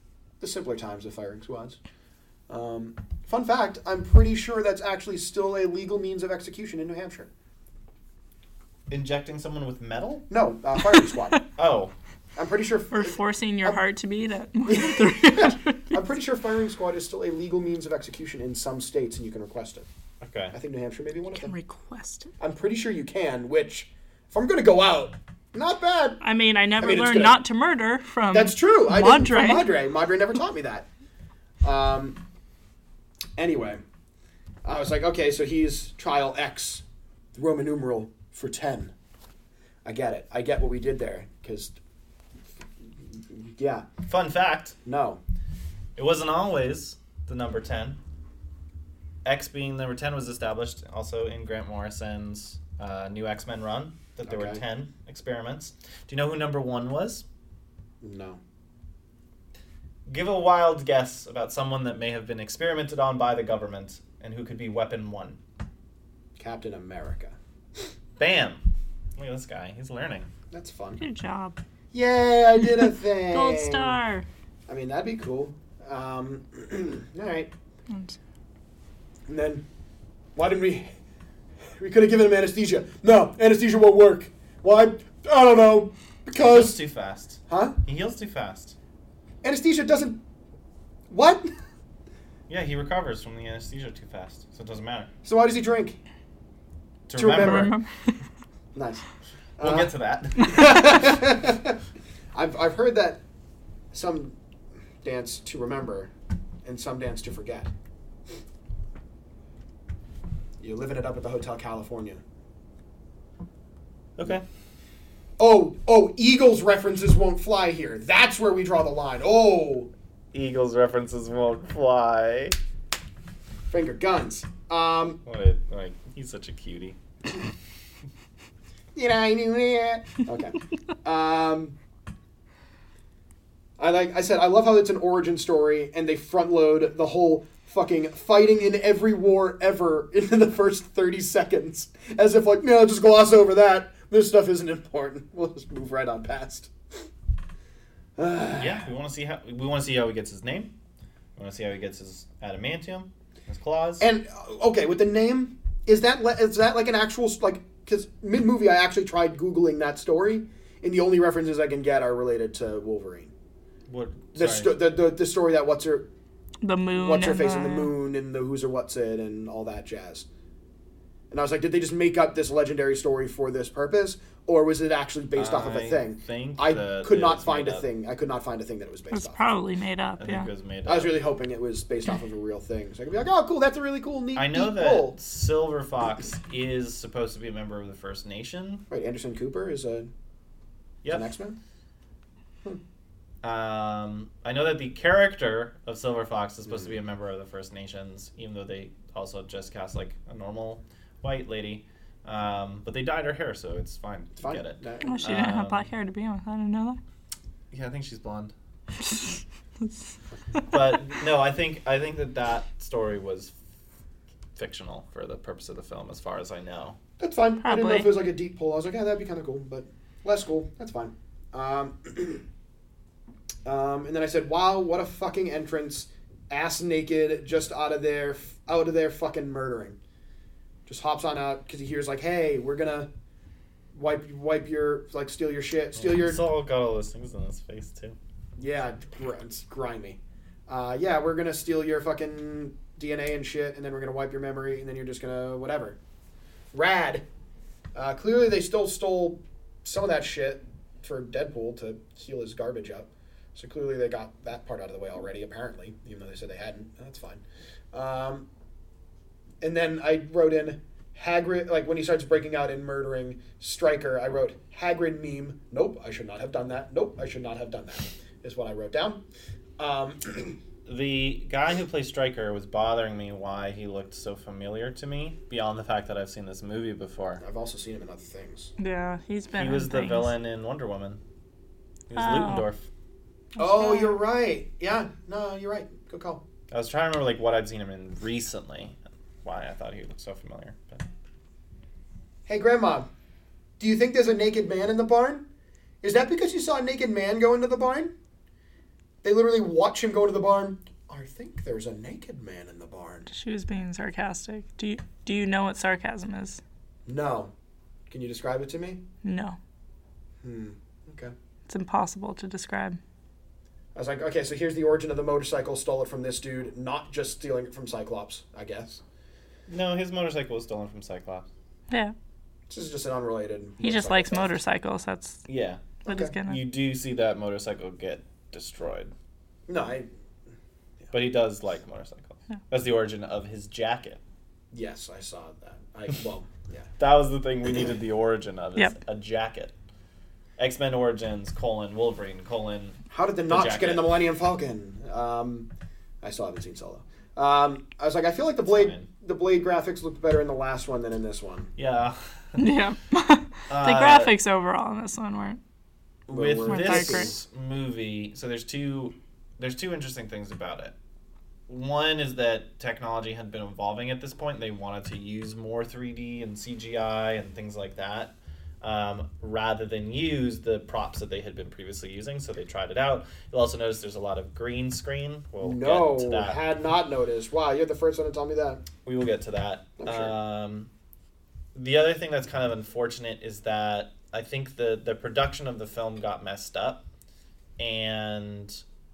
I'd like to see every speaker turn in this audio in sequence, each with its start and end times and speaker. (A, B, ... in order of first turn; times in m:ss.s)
0:00.4-0:01.8 A
0:02.5-0:07.3 A
0:08.9-0:10.3 B
0:10.3-0:11.4 A
0:11.6-0:11.9 B
0:12.4-0:13.8 A
0:12.9-0:16.0 C
0:14.7-0:19.9 A
0:20.2-0:20.6 B
0:20.5-0:21.5 A
0:21.4-0:22.3 C
0:22.4-0:26.2 A
0:26.2-0:29.7 C
0:26.8-0:27.4 A
0:28.3-0:30.9 A
0:31.6-0:32.2 A
0:33.4-0:33.8 A
0:34.6-0:36.8 A
0:37.4-0:38.9 A
0:39.8-0:41.8 A
0:43.1-0:43.9 A
0:44.0-0:44.8 B
0:44.8-0:45.2 A
0:46.0-0:48.0 B
0:49.2-0:57.2 B
0:54.3-0:54.6 A
0:58.0-0:58.4 A
1:00.1-1:05.4 B
1:06.4-1:07.4 A
1:08.2-1:08.6 B
1:09.2-1:10.3 B
1:10.5-1:11.0 A
1:11.0-1:11.6 C
1:11.9-1:14.0 A
1:13.3-1:14.3 C
1:14.7-1:17.5 A
1:17.9-1:18.2 C
1:19.3-1:19.6 A
1:20.4-1:20.9 A
1:21.8-1:26.8 A
1:26.4-1:28.8 B
1:27.5-1:27.8 A
1:29.4-1:30.2 A
1:31.1-1:31.5 A
1:32.5-1:35.1 B
1:35.2-1:36.0 A
1:37.1-1:37.7 B
1:37.2-1:37.8 A
1:37.3-1:38.2 C
1:38.8-1:39.0 A
1:39.6-1:41.0 B
1:39.6-1:41.8 A
1:42.4-1:43.2 A
1:43.9-1:44.4 A
1:45.0-1:46.1 A
1:46.6-1:47.7 A
1:50.6-1:52.2 A
1:54.2-1:54.4 B
1:55.4-1:59.9 A
2:00.3-2:02.6 B
2:03.7-2:05.2 A
2:05.2-2:07.0 B
2:09.0-2:11.8 A
2:13.8-2:26.7 A
2:28.2-2:28.9 A
2:28.6-2:30.7 B
2:31.4-2:34.1 B
2:34.0-2:43.3 A
2:43.9-2:44.8 B
2:44.4-2:46.1 A
2:46.6-2:47.9 C
2:47.0-2:50.3 A
2:51.3-2:59.5 A
2:55.4-2:57.9 B
2:59.1-3:00.5 C
3:00.2-3:01.2 B
3:00.9-3:05.2 A
3:04.4-3:08.8 B
3:08.9-3:10.1 A
3:11.0-3:11.3 B
3:11.1-3:11.6 A
3:13.4-3:25.9 B
3:24.4-3:25.3 A
3:25.0-3:27.0 C
3:27.7-3:28.5 B
3:30.7-3:33.6 B
3:34.6-3:37.0 B
3:37.2-3:42.4 A
3:37.6-3:38.1 C
3:43.6-3:50.0 A
3:50.9-3:53.1 A
3:53.9-3:56.4 A
3:56.0-3:58.2 B
3:58.6-4:06.0 A
4:06.7-4:07.2 A
4:07.9-4:18.5 A
4:19.6-4:29.2 A
4:29.8-4:30.6 A
4:30.9-4:37.4 B
4:37.4-4:38.7 A
4:38.8-4:40.4 C
4:39.6-4:41.2 B
4:42.1-4:42.9 B
4:42.2-4:42.7 C
4:43.6-4:44.2 C
4:43.6-4:46.4 A
4:46.7-4:51.0 B
4:52.5-4:53.1 A
4:53.8-4:55.5 A
4:56.0-4:58.1 A
4:59.2-5:03.3 A
5:03.3-5:06.6 C
5:07.1-5:07.5 A
5:08.1-5:09.0 A
5:09.2-5:09.6 C
5:10.4-5:11.3 A
5:11.7-5:13.0 C
5:14.0-5:19.0 A
5:19.7-5:21.5 B
5:21.9-5:22.2 C
5:22.7-5:24.6 A
5:23.8-5:25.4 C
5:25.5-5:25.9 B
5:26.0-5:26.6 C
5:26.1-5:26.3 A
5:26.5-5:29.1 B
5:29.7-5:30.1 A
5:31.1-5:34.2 B
5:34.7-5:36.9 A
5:37.0-5:39.7 B
5:40.6-5:44.2 B
5:43.1-5:45.7 A
5:46.2-5:51.7 A
5:48.7-5:49.1 B
5:51.8-5:52.7 B
5:52.6-5:55.6 C
5:53.7-5:54.3 B
5:56.3-5:57.3 A
5:56.3-6:00.9 B
5:56.7-5:57.3 C
6:01.7-6:16.6 B
6:15.6-6:18.8 A
6:19.0-6:20.9 B
6:20.0-6:20.3 A
6:21.8-6:27.0 B
6:27.8-6:28.8 B